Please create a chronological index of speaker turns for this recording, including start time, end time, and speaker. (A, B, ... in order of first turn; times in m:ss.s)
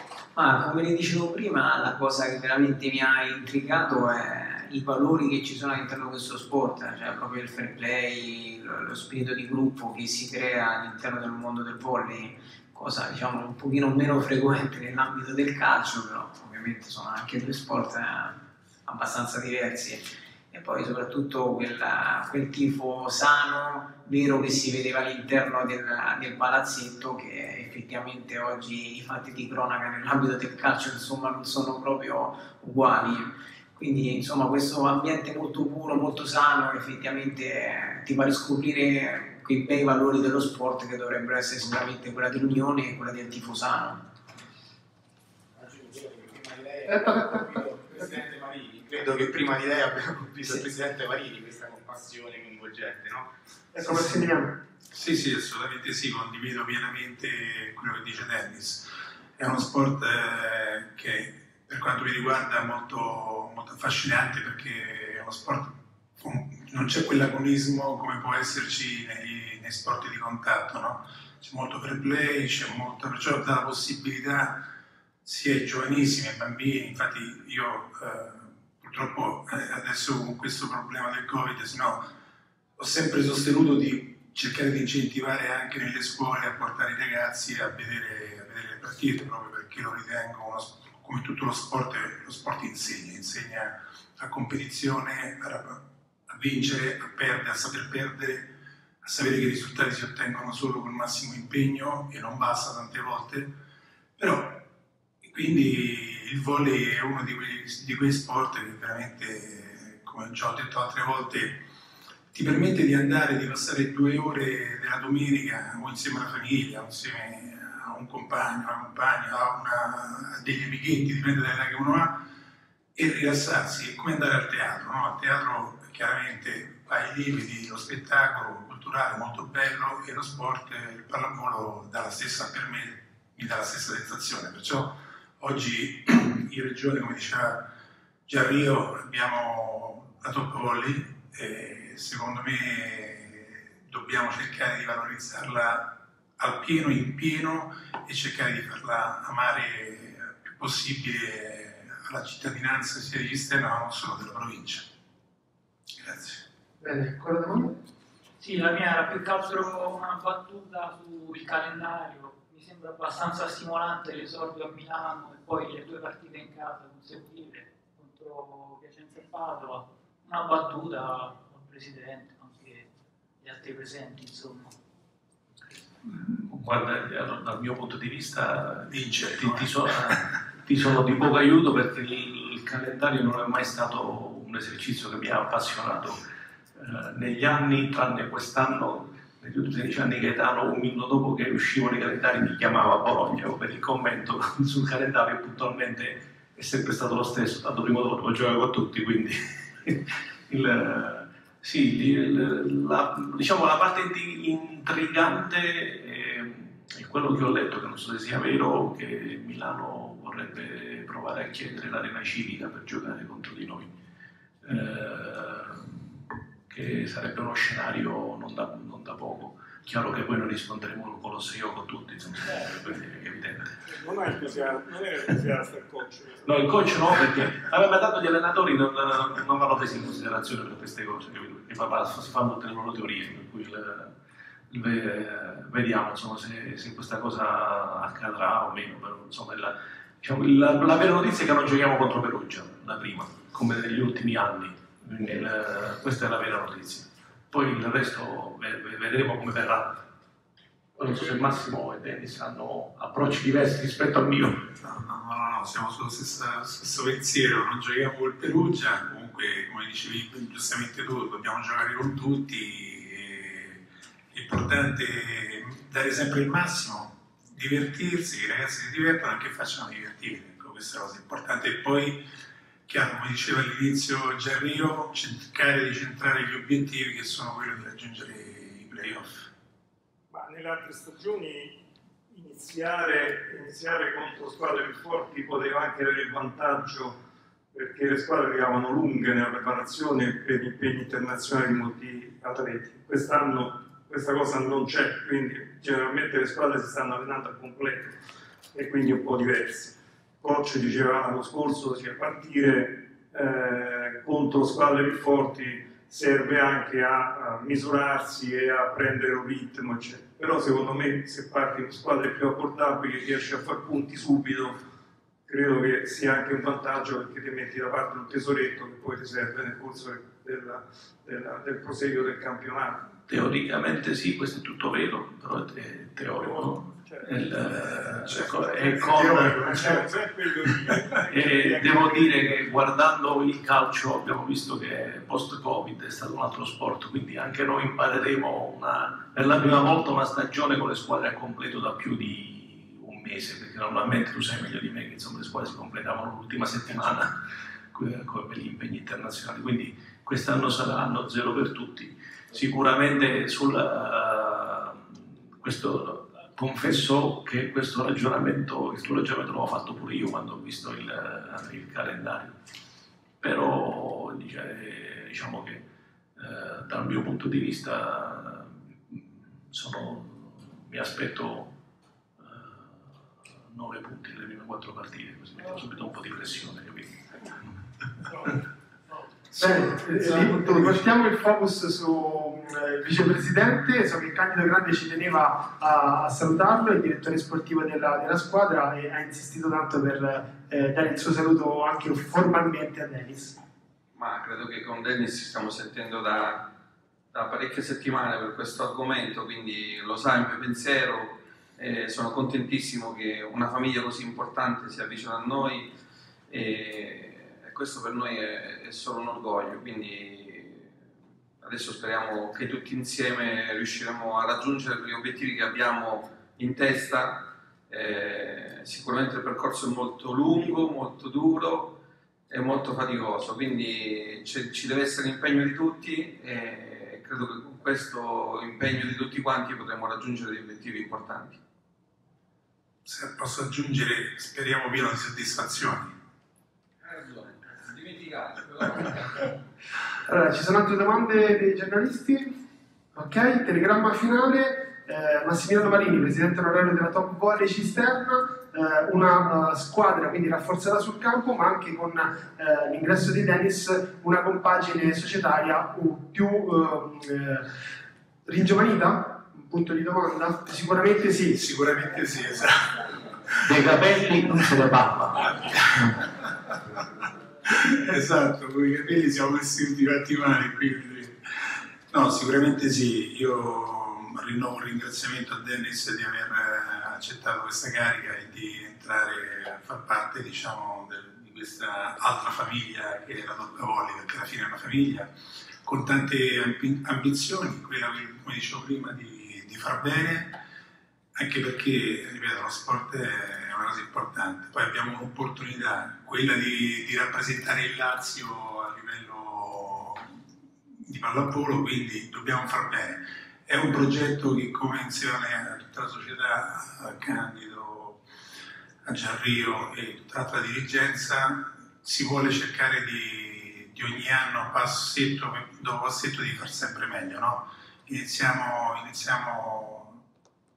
0:00.4-0:44.0 A
0:45.6-0:53.3 B
0:46.9-0:47.6 C
0:53.8-0:54.6 C
0:53.9-0:54.1 B
0:54.9-1:14.6 D
1:15.2-1:22.0 D
1:22.8-1:38.5 D
1:39.0-1:43.5 D
1:44.2-1:44.6 D
1:45.2-1:51.6 D
1:52.3-2:02.2 D
2:02.9-2:17.7 D
2:18.3-2:34.9 D
2:36.0-2:36.4 D
2:36.8-2:37.8 C
2:38.4-2:52.9 E
2:53.4-2:54.7 E
2:56.0-3:33.9 F
2:58.9-2:59.7 D
3:34.6-3:43.8 F
3:43.8-3:46.6 G
3:46.4-3:54.2 F
3:54.7-4:10.0 F
4:11.0-4:14.7 F
4:14.8-4:32.2 D
4:32.9-4:39.4 D
4:40.3-4:47.2 G
4:47.7-4:58.2 G
4:58.7-5:14.8 G
5:15.5-5:23.1 G
5:23.3-5:30.0 F
5:26.4-5:32.6 G
5:29.1-5:29.8 D
5:31.3-5:47.4 F
5:47.9-6:02.6 F
6:03.4-6:11.7 F
6:12.4-6:13.1 F
6:13.7-6:17.6 F
6:19.5-6:20.8 D
6:19.6-6:33.6 C
6:34.1-6:36.7 H
6:37.3-6:45.9 H
6:46.5-6:51.0 H
6:51.6-7:02.0 H
7:02.5-7:11.6 H
7:13.0-7:16.2 D
7:17.9-7:18.4 H
7:20.2-7:22.6 C
7:23.1-7:37.7 C
7:38.4-7:41.6 C
7:41.5-7:43.6 D
7:43.6-7:46.2 F
7:45.6-7:46.5 D
7:47.6-8:05.3 D
8:05.8-8:10.6 D
8:11.3-8:20.3 D
8:21.0-8:28.2 D
8:29.0-8:40.2 D